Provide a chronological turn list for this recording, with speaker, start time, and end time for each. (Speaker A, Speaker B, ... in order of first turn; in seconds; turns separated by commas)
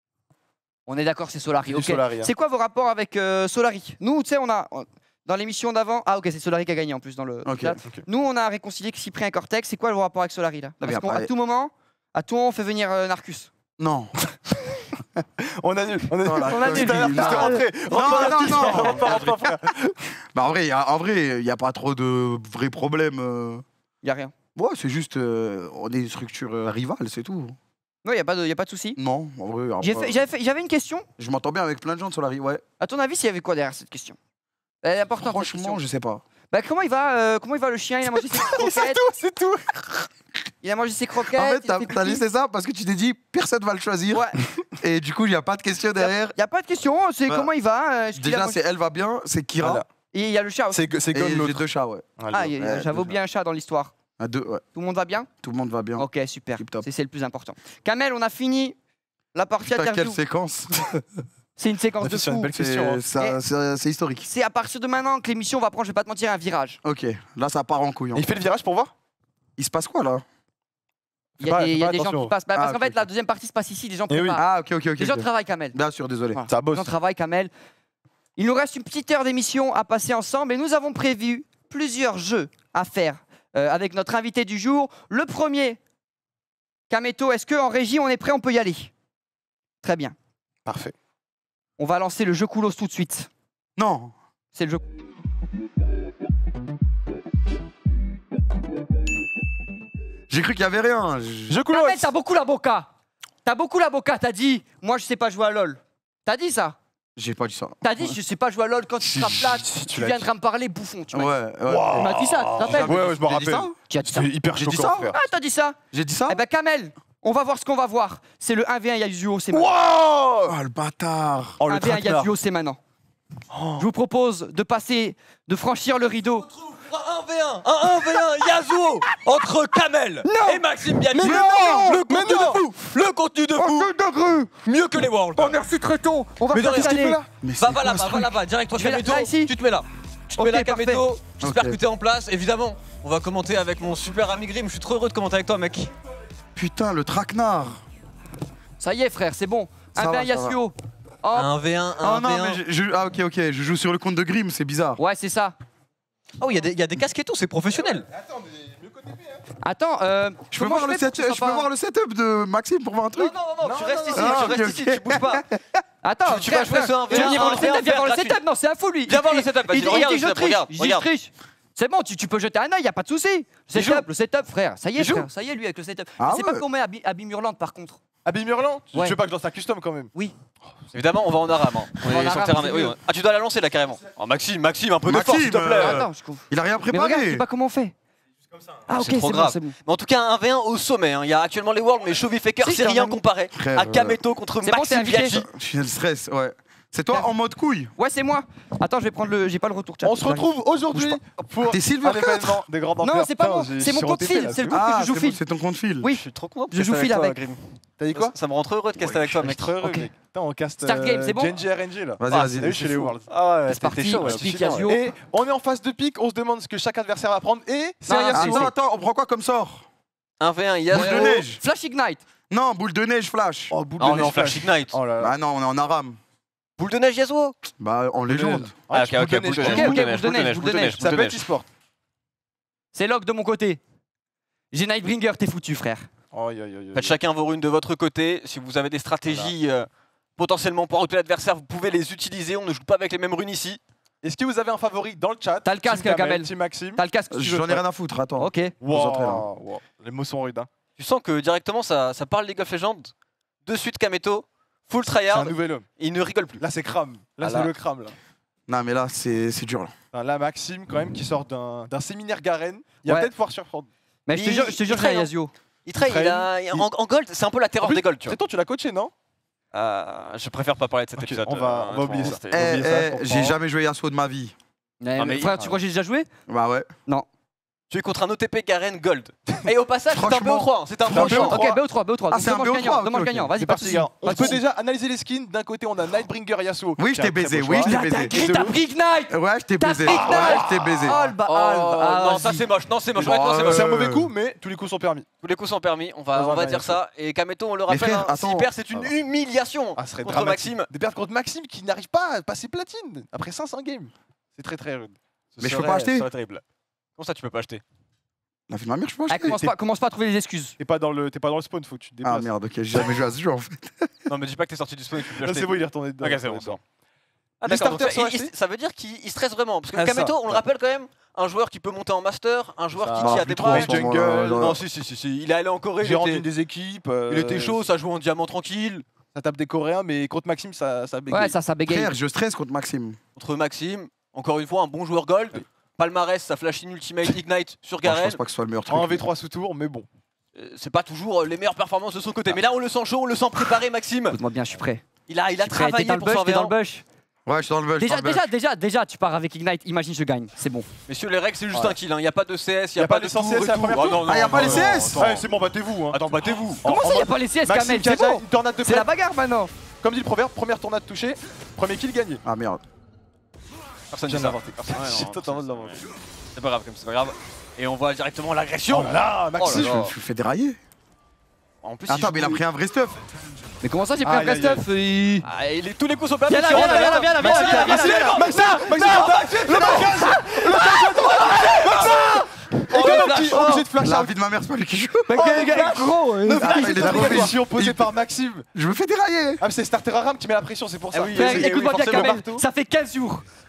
Speaker A: 0.9-13.5, Speaker B: 1.7-2.3, Speaker C: 7.5-7.8, Speaker C: 10.8-11.3, Speaker C: 13.8-14.2, Speaker B: 15.4-20.1, Speaker C: 16.2-19.4, Speaker A: 16.4-19.4, Speaker C: 20.3-23.6, Speaker A: 24.0-24.3, Speaker C: 24.6-27.6, Speaker A: 28.0-29.0, Speaker C: 29.0-30.2, Speaker A: 29.8-31.1, Speaker C: 31.2-32.6, Speaker A: 32.8-34.2, Speaker A: 34.8-35.8, Speaker C: 35.2-36.2, Speaker A: 36.5-39.0, Speaker B: 38.3-40.1, Speaker A: 40.6-42.2, Speaker C: 41.3-44.3, Speaker A: 44.1-44.4, Speaker C: 44.8-46.4, Speaker A: 46.0-48.6, Speaker C: 48.1-49.8, Speaker B: 49.6-49.9, Speaker A: 50.1-50.8, Speaker B: 50.7-51.7, Speaker C: 51.1-52.1, Speaker B: 52.2-53.1, Speaker A: 52.3-53.9, Speaker C: 52.6-52.9, Speaker C: 54.2-54.6, Speaker A: 54.8-55.3, Speaker C: 55.4-56.9, Speaker A: 56.0-58.8, Speaker A: 59.4-60.2, Speaker C: 59.7-61.2, Speaker A: 61.6-62.5, Speaker B: 62.0-63.0, Speaker C: 62.5-64.3, Speaker A: 64.3-66.8, Speaker C: 66.8-68.3, Speaker B: 68.2-68.9, Speaker C: 69.6-70.2, Speaker A: 71.4-74.5, Speaker B: 71.4-72.3, Speaker C: 72.5-73.0, Speaker B: 74.1-74.4, Speaker C: 74.4-76.4, Speaker A: 75.0-75.8, Speaker A: 76.3-77.5, Speaker B: 76.5-76.9, Speaker A: 78.4-85.8, Speaker A: 86.9-88.9, Speaker A: 89.8-90.2, Speaker B: 90.7-90.9, Speaker A: 91.8-93.3, Speaker C: 93.8-94.1, Speaker A: 94.5-94.8, Speaker C: 100.3-101.6, Speaker B: 101.5-102.1, Speaker A: 101.7-102.9, Speaker A: 103.5-106.8, Speaker C: 107.2-108.1, Speaker A: 107.8-111.3, Speaker C: 109.1-109.5, Speaker B: 109.4-110.3, Speaker C: 111.1-113.7, Speaker B: 111.7-115.2, Speaker A: 112.0-112.9, Speaker A: 113.9-114.3, Speaker C: 114.5-115.1, Speaker A: 115.1-115.8, Speaker C: 115.9-116.4, Speaker A: 116.3-119.7, Speaker B: 119.5-120.6, Speaker C: 120.5-121.6, Speaker B: 121.6-122.3, Speaker A: 121.7-122.8, Speaker A: 123.8-126.5, Speaker D: 126.5-133.9, Speaker A: 130.2-130.7, Speaker B: 131.1-132.7, Speaker C: 131.2-132.0, Speaker A: 133.6-134.5, Speaker D: 134.7-135.6, Speaker A: 135.4-137.2, Speaker D: 136.5-145.9, Speaker B: 136.6-137.2, Speaker C: 137.4-138.3, Speaker A: 138.8-139.5, Speaker A: 140.3-141.1, Speaker C: 141.4-141.8, Speaker C: 146.6-147.8, Speaker A: 148.8-151.5, Speaker C: 149.9-150.6, Speaker D: 151.3-152.6, Speaker C: 152.0-155.0, Speaker A: 155.0-155.6, Speaker D: 156.4-158.1, Speaker B: 158.1-159.4, Speaker A: 159.6-161.7, Speaker C: 160.5-163.4, Speaker D: 163.2-165.4, Speaker B: 163.6-164.5, Speaker C: 164.1-165.6, Speaker A: 166.0-178.0, Speaker D: 166.3-168.4, Speaker D: 169.1-171.1, Speaker D: 173.7-174.1, Speaker C: 176.2-176.7, Speaker B: 178.2-180.1, Speaker D: 180.9-186.0, Speaker A: 182.0-183.0, Speaker C: 185.1-187.4, Speaker A: 185.8-187.9, Speaker A: 188.9-189.8, Speaker D: 188.9-195.4, Speaker A: 192.6-193.2, Speaker C: 193.5-194.2, Speaker A: 194.6-195.4, Speaker C: 195.3-197.9, Speaker A: 198.0-200.2, Speaker B: 200.0-204.8, Speaker C: 200.2-202.7, Speaker A: 203.0-205.4, Speaker C: 204.7-206.1, Speaker A: 206.0-207.4, Speaker D: 206.1-209.8, Speaker B: 208.0-208.4, Speaker B: 209.1-218.7, Speaker A: 210.8-211.6, Speaker C: 212.2-213.1, Speaker D: 213.3-214.9, Speaker A: 213.7-215.1, Speaker A: 218.1-218.7, Speaker C: 218.3-219.9, Speaker D: 220.4-221.3, Speaker C: 220.9-221.6, Speaker A: 220.9-222.2, Speaker C: 222.5-223.8, Speaker B: 223.7-225.3, Speaker D: 224.0-225.0, Speaker C: 225.2-226.2, Speaker D: 226.8-227.6, Speaker C: 227.8-228.8, Speaker B: 228.3-231.7, Speaker D: 228.9-231.4, Speaker A: 229.6-231.0, Speaker C: 231.0-231.3, Speaker A: 232.9-233.8, Speaker A: 234.7-236.1, Speaker B: 236.3-237.2, Speaker D: 236.9-243.8, Speaker B: 239.3-239.5, Speaker B: 244.2-247.0, Speaker A: 245.7-247.8, Speaker C: 247.3-249.5, Speaker A: 248.4-248.7, Speaker B: 248.8-250.7, Speaker D: 251.0-256.6, Speaker B: 255.3-255.9, Speaker B: 256.6-258.2, Speaker D: 257.4-257.7, Speaker C: 258.7-259.9, Speaker B: 260.1-263.9, Speaker A: 264.3-265.5, Speaker D: 264.3-265.3, Speaker D: 265.9-268.4, Speaker B: 266.0-266.9, Speaker B: 267.8-269.1, Speaker D: 269.7-272.8, Speaker B: 271.2-273.6, Speaker C: 272.5-274.6, Speaker A: 275.0-276.3, Speaker D: 275.2-275.8, Speaker C: 276.5-276.9, Speaker D: 277.9-281.5, Speaker C: 280.1-281.5, Speaker B: 281.0-281.8, Speaker A: 281.1-284.6, Speaker C: 282.3-283.5, Speaker B: 283.6-288.7, Speaker C: 287.0-288.5, Speaker A: 287.9-292.7, Speaker C: 289.3-291.2, Speaker B: 290.1-291.2, Speaker D: 291.4-293.9, Speaker C: 293.2-294.3, Speaker B: 293.2-295.3, Speaker D: 295.4-300.9, Speaker B: 296.3-297.0, Speaker C: 297.9-298.7, Speaker B: 300.0-306.2, Speaker D: 305.6-306.6, Speaker C: 305.6-306.3, Speaker D: 307.1-307.8, Speaker C: 308.7-309.6, Speaker A: 309.3-310.8, Speaker B: 309.5-309.7, Speaker B: 310.8-312.5, Speaker C: 312.2-314.1, Speaker D: 314.3-316.8, Speaker B: 315.1-316.8, Speaker D: 317.6-326.4, Speaker B: 317.6-318.5, Speaker B: 319.9-320.6, Speaker B: 323.0-325.0, Speaker C: 323.2-324.8, Speaker B: 326.0-327.8, Speaker D: 327.3-329.1, Speaker B: 329.4-331.6, Speaker A: 331.3-332.1, Speaker C: 331.9-333.2, Speaker D: 333.4-338.4, Speaker C: 338.0-339.3, Speaker B: 338.9-340.1, Speaker D: 340.6-344.4, Speaker A: 344.3-345.1, Speaker D: 345.3-346.8, Speaker A: 345.6-347.0, Speaker C: 347.5-348.5, Speaker A: 348.0-350.9, Speaker D: 351.1-355.3, Speaker B: 351.7-352.0, Speaker B: 353.0-359.1, Speaker C: 353.9-355.4, Speaker D: 356.1-356.8, Speaker A: 356.8-359.7, Speaker B: 360.0-362.4, Speaker C: 362.4-362.8, Speaker D: 364.1-370.1, Speaker B: 364.3-366.0, Speaker B: 368.9-370.1, Speaker C: 369.7-370.8, Speaker D: 371.8-372.6, Speaker C: 372.1-373.2, Speaker A: 373.8-375.5, Speaker B: 374.2-374.9, Speaker D: 375.4-383.9, Speaker A: 376.5-382.4, Speaker B: 376.7-384.3, Speaker A: 382.9-383.8, Speaker C: 384.0-385.3, Speaker A: 385.3-387.5, Speaker B: 385.3-388.7, Speaker C: 386.5-388.1, Speaker C: 388.7-389.6, Speaker B: 389.6-392.6, Speaker D: 391.1-392.4, Speaker A: 391.3-393.4